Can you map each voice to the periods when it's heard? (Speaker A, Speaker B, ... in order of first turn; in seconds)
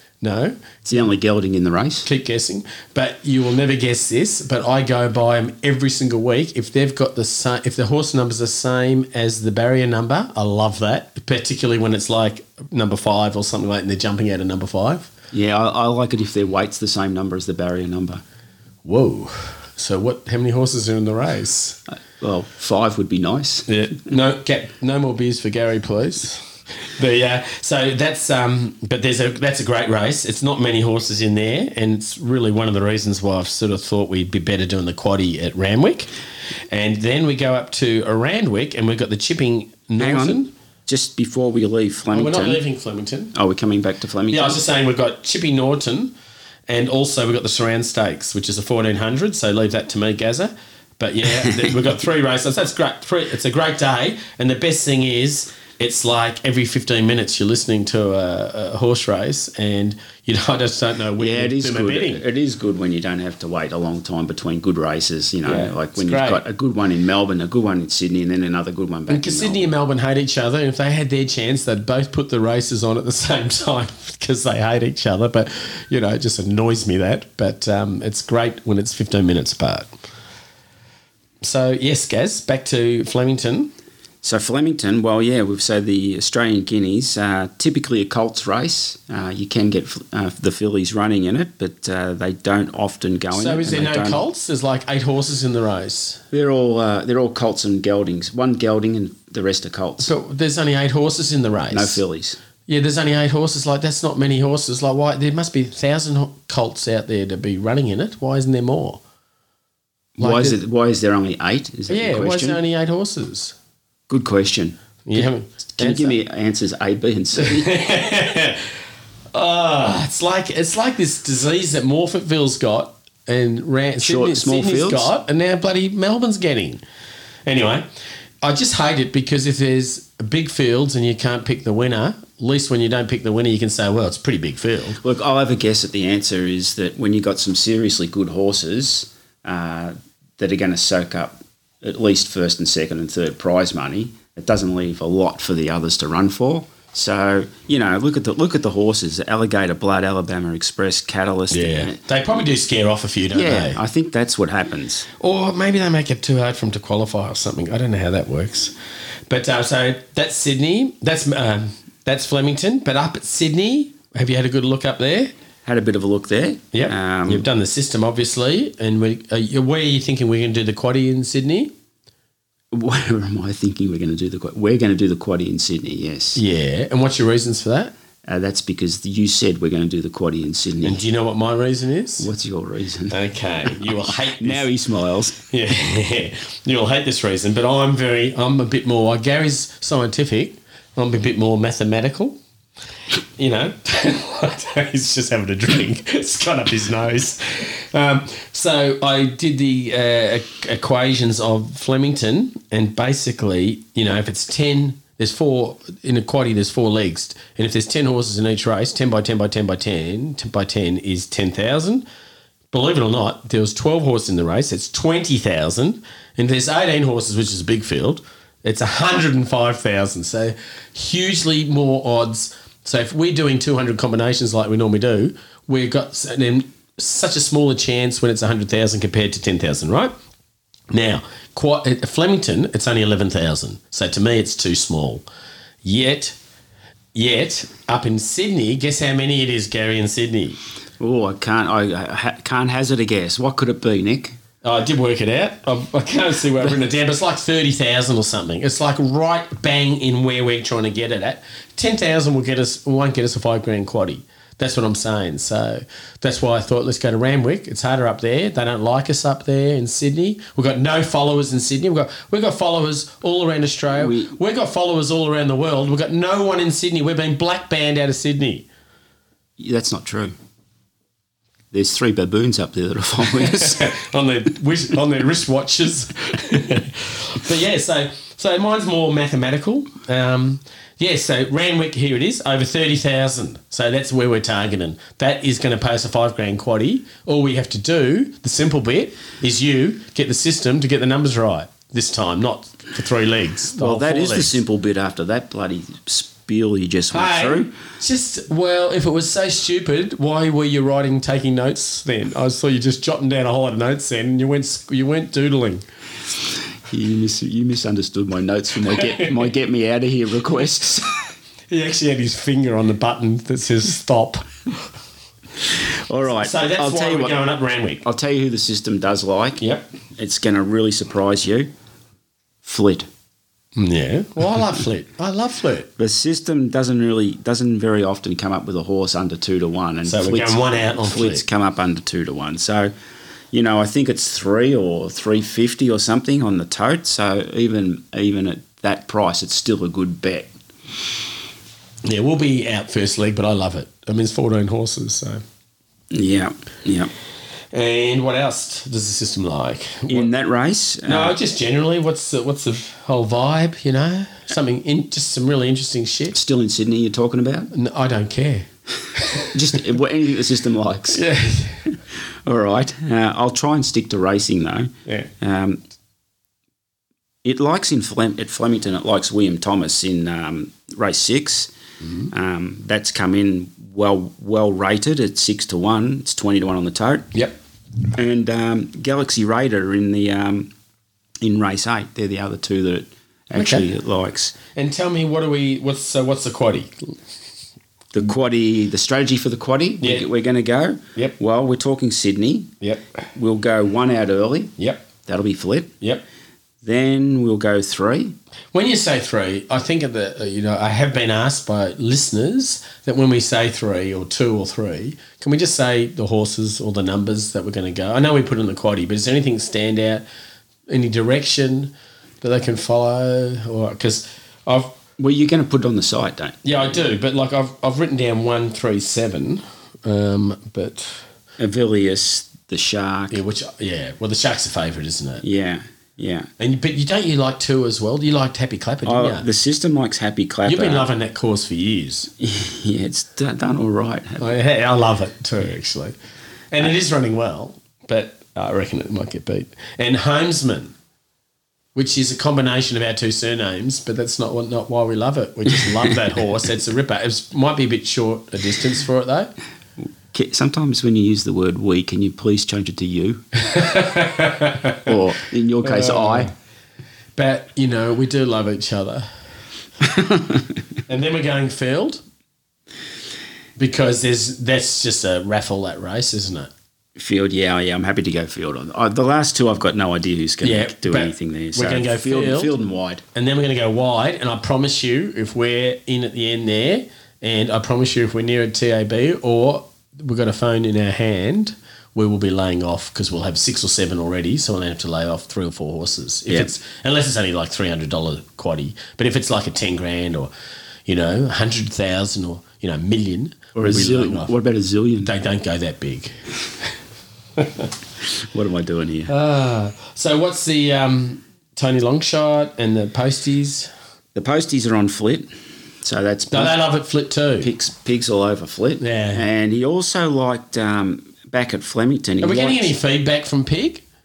Speaker A: 0.2-0.8, 2.0-15.1, 18.8-21.8, 23.7-36.1, 36.7-40.5, 42.1-43.3, 44.3-46.1, 46.7-62.2, 65.4-66.4, 69.1-79.9, 81.4-83.7, 93.3-96.2, 100.0-102.0, 102.7-109.0, 110.2-110.6, 111.9-113.6, 115.1-116.2, 117.4-118.7, 119.3-126.8, 127.5-127.9, 128.4-135.0, 151.5-153.8, 155.2-158.8, 159.3-165.3, 166.7-171.7, 176.4-177.9, 180.8-182.3, 183.1-184.7, 185.5-192.4, 193.4-212.1, 212.7-230.1, 230.9-235.2, 235.8-236.4, 237.1-240.6, 244.6-268.7, 273.4-294.6, 297.1-305.8, 308.9-309.5, 311.7-314.8, 316.4-318.0, 319.6-319.9, 323.8-325.9, 330.1-331.4, 342.1-345.4, 347.7-350.3, 351.1-356.4, 357.7-359.6, 361.1-361.9, 383.6-383.9, 384.8-387.1, 390.0-390.3, 394.8-395.1, 398.7-410.3, 410.9-415.0, 416.6-421.2, 423.3-425.4, 426.6-429.5, 430.7-432.3, 434.4-436.1, 436.7-440.9, 441.9-449.5, 453.6-455.2, 455.8-456.5, 457.4-459.3, 461.1-462.2, 463.8-466.7, 470.6-472.7, 473.4-490.5, 491.1-494.5, 495.2-496.3, 497.6-497.9, 499.3-503.9, 506.5-507.7, 509.0-509.4, 512.4-514.0
Speaker B: 0.8-2.1, 15.3-18.2, 21.9-23.7, 40.0-42.6, 43.3-44.6, 51.4-51.7, 61.2-69.7, 84.2-94.2, 96.3-100.1, 101.7-102.4, 110.2-112.6, 114.1-117.7, 124.0-125.1, 135.0-152.0, 153.3-155.1, 165.7-167.5, 172.7-176.4, 178.3-181.0, 182.2-183.2, 184.4-185.4, 241.0-244.4, 263.9-264.4, 269.6-270.4, 271.7-273.9, 293.8-297.7, 306.9-311.1, 315.8-317.4, 318.0-321.7, 322.6-323.1, 326.0-332.9, 333.5-340.5, 346.1-347.1, 350.1-351.4, 356.3-357.7, 359.5-361.2, 361.9-365.8, 367.4-371.7, 372.3-377.4, 378.1-380.7, 381.4-384.6, 388.1-392.8, 393.4-395.9, 396.8-398.4, 415.2-417.1, 421.6-423.4, 425.4-426.5, 429.1-431.1, 432.4-434.5, 450.3-453.4, 455.0-456.5, 460.0-460.7, 467.2-473.2, 493.8-495.3, 498.3-499.3, 504.4-505.5, 506.0-506.8, 507.6-512.9